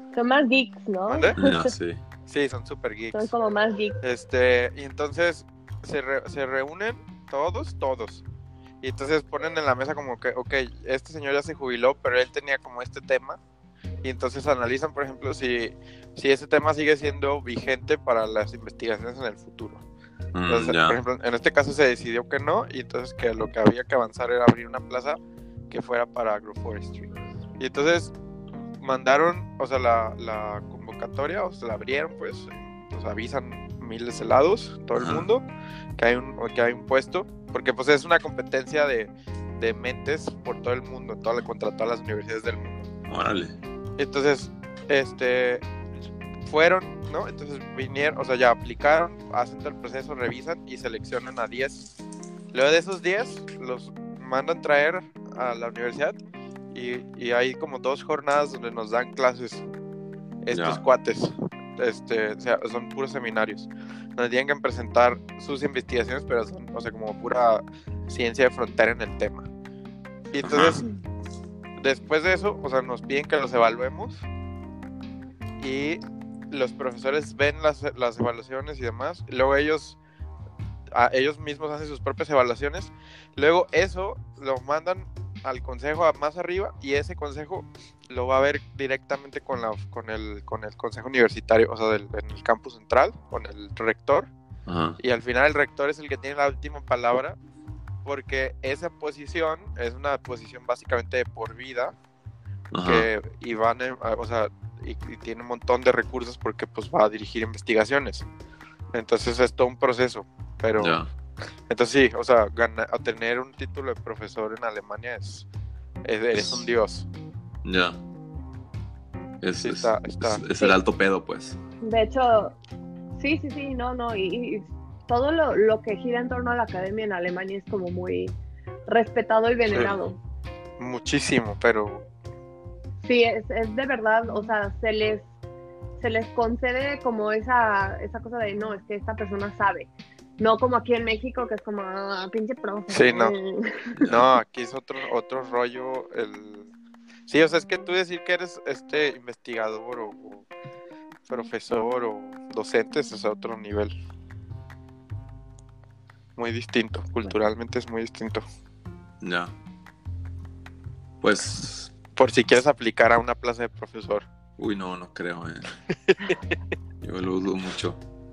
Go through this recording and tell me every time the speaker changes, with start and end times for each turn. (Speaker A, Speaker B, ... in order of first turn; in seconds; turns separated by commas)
Speaker A: 0.1-1.7, Speaker B: 1.1-1.4, Speaker C: 1.4-2.0, Speaker B: 2.3-3.3, Speaker A: 3.1-4.0, Speaker B: 4.0-8.2, Speaker B: 8.8-13.4, Speaker B: 14.0-19.8, Speaker C: 20.3-21.0, Speaker B: 20.5-25.2, Speaker B: 25.7-28.1, Speaker B: 28.8-35.5, Speaker C: 35.0-35.3, Speaker B: 36.0-42.9, Speaker C: 43.1-43.6, Speaker B: 44.0-45.6, Speaker B: 46.5-52.0, Speaker B: 52.5-56.2, Speaker B: 56.7-59.6, Speaker B: 60.4-69.5, Speaker C: 60.5-60.8, Speaker B: 70.3-70.9, Speaker C: 70.4-70.8, Speaker B: 71.8-74.2, Speaker B: 75.6-80.0, Speaker B: 80.9-94.3, Speaker C: 94.7-95.0, Speaker B: 95.0-97.4, Speaker B: 98.0-101.9, Speaker C: 102.7-103.1, Speaker B: 102.8-108.3, Speaker B: 108.9-111.0, Speaker C: 110.8-111.1, Speaker B: 111.7-115.5, Speaker B: 116.0-117.1, Speaker C: 116.3-116.7, Speaker C: 117.6-118.0, Speaker C: 119.4-121.6, Speaker B: 119.6-120.4, Speaker A: 121.8-122.5, Speaker A: 123.2-128.3, Speaker A: 128.9-130.2, Speaker B: 130.8-132.1, Speaker A: 133.0-135.3, Speaker A: 136.0-143.9, Speaker B: 142.9-143.3, Speaker C: 144.0-144.3, Speaker B: 144.1-146.7, Speaker B: 147.3-150.5, Speaker B: 151.3-153.9, Speaker B: 156.4-158.4, Speaker C: 159.2-159.5, Speaker C: 161.2-161.9, Speaker B: 162.2-164.3, Speaker C: 164.6-165.7, Speaker B: 166.1-166.4, Speaker C: 167.0-168.0